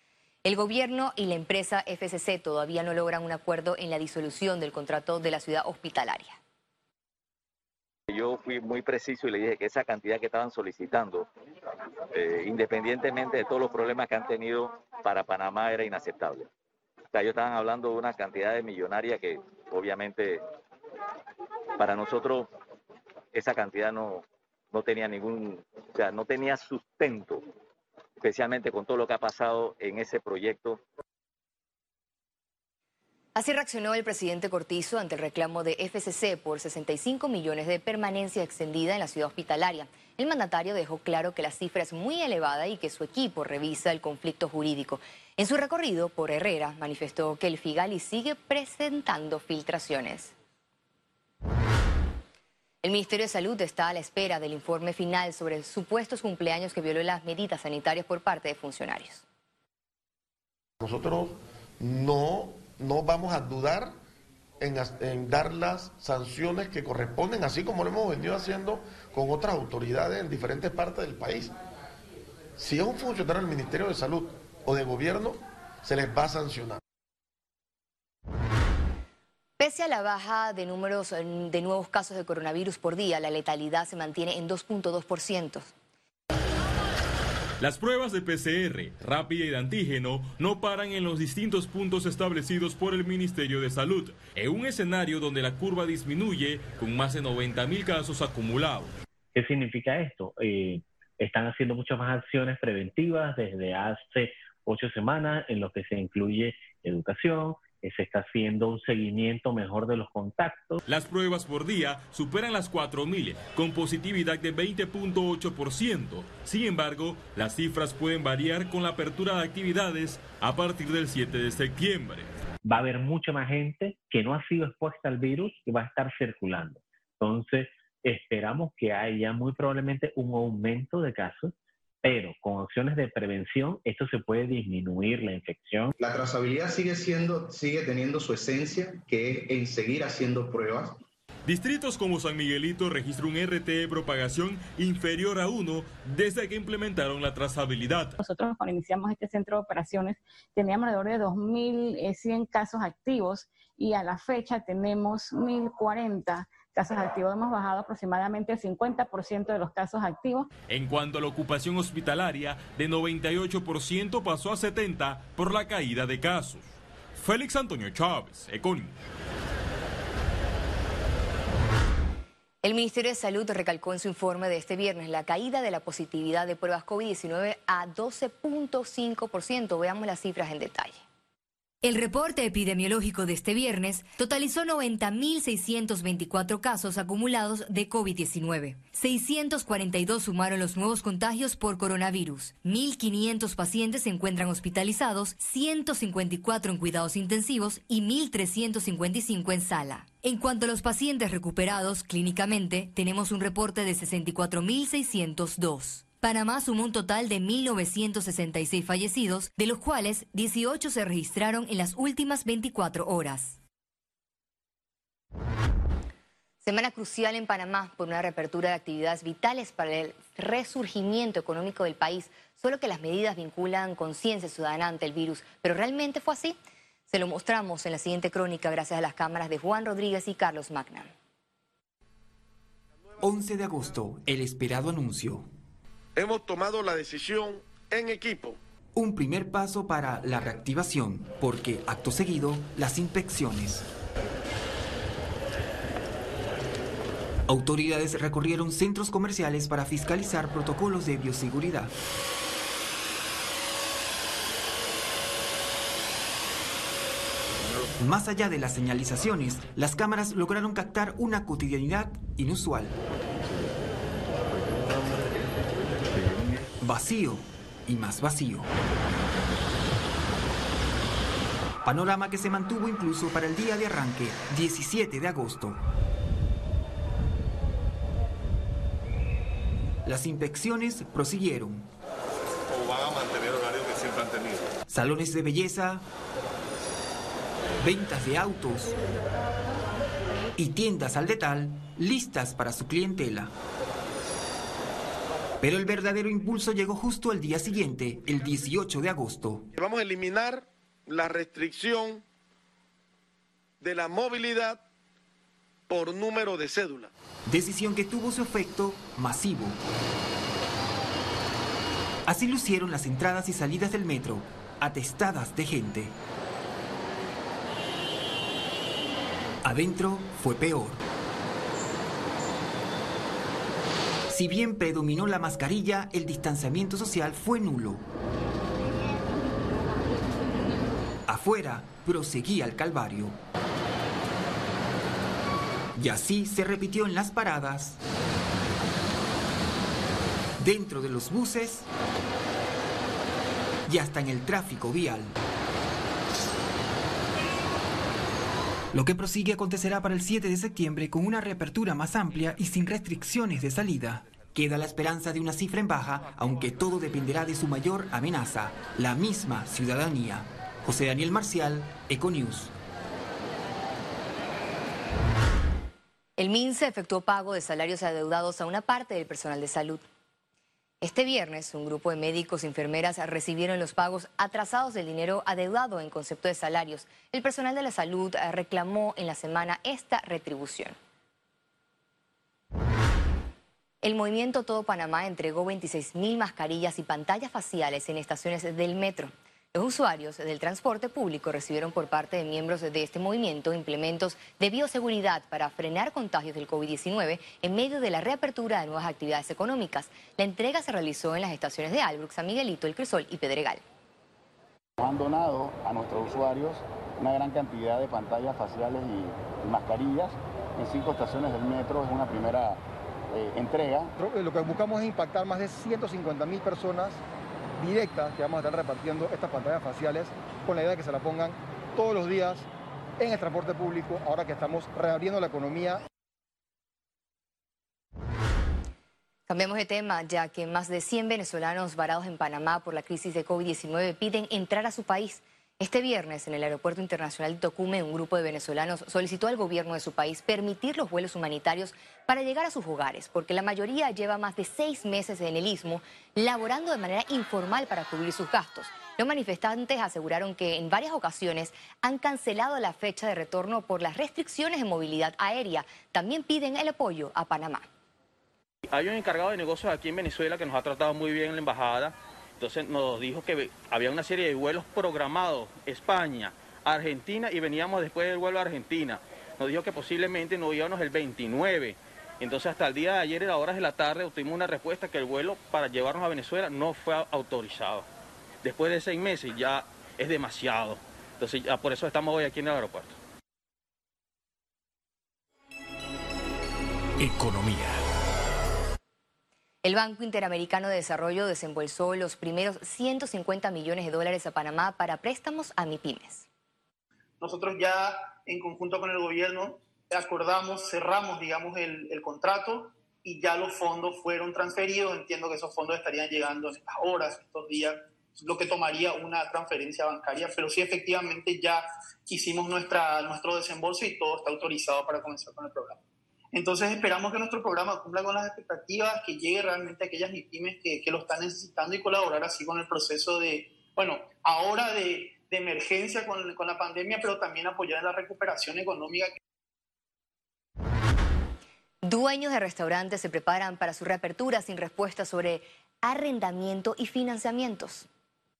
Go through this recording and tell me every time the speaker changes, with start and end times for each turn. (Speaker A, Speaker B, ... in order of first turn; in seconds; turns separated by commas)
Speaker A: 0.5-6.4, Speaker B: 8.1-11.2, Speaker B: 12.2-16.4, Speaker B: 17.1-20.4, Speaker B: 21.8-22.5, Speaker B: 23.4-24.2, Speaker B: 24.7-27.4, Speaker B: 28.2-30.8, Speaker A: 33.4-50.3, Speaker A: 52.8-59.2, Speaker C: 60.8-63.9, Speaker C: 64.6-71.6, Speaker C: 72.6-76.8, Speaker A: 79.6-85.7, Speaker D: 87.6-98.9, Speaker E: 99.3-110.8, Speaker D: 110.9-122.3, Speaker E: 122.7-131.5, Speaker E: 132.0-135.9, Speaker F: 136.0-141.0, Speaker D: 141.5-148.2, Speaker G: 148.2-160.5, Speaker D: 160.7-166.7, Speaker D: 167.2-168.9, Speaker A: 172.6-181.0, Speaker A: 181.8-213.6, Speaker A: 216.6-226.6, Speaker A: 227.1-231.1, Speaker H: 233.2-235.5, Speaker C: 236.2-238.6, Speaker H: 238.9-243.9, Speaker H: 247.5-251.9, Speaker H: 258.0-263.0, Speaker H: 266.8-268.7, Speaker H: 271.9-275.8, Speaker H: 280.1-281.9, Speaker H: 284.9-286.0, Speaker H: 287.8-289.0, Speaker H: 290.6-293.5, Speaker H: 295.6-299.7, Speaker C: 299.8-302.2, Speaker C: 303.8-304.8, Speaker C: 305.9-307.1, Speaker H: 307.5-309.8, Speaker H: 312.3-316.2, Speaker H: 319.6-321.0, Speaker H: 324.3-328.1, Speaker H: 331.3-333.4, Speaker H: 336.0-338.0, Speaker H: 340.6-341.9, Speaker H: 343.9-345.3, Speaker H: 348.9-362.7, Speaker A: 366.4-370.0, Speaker A: 371.0-380.9, Speaker A: 384.0-403.8, Speaker I: 405.0-412.8, Speaker I: 413.3-414.1, Speaker J: 414.2-417.2, Speaker J: 417.8-422.7, Speaker J: 423.2-426.0, Speaker A: 429.5-457.9, Speaker K: 458.9-478.1, Speaker K: 478.6-483.2, Speaker A: 489.8-496.5, Speaker L: 497.4-516.0, Speaker L: 516.5-529.4, Speaker A: 532.0-538.1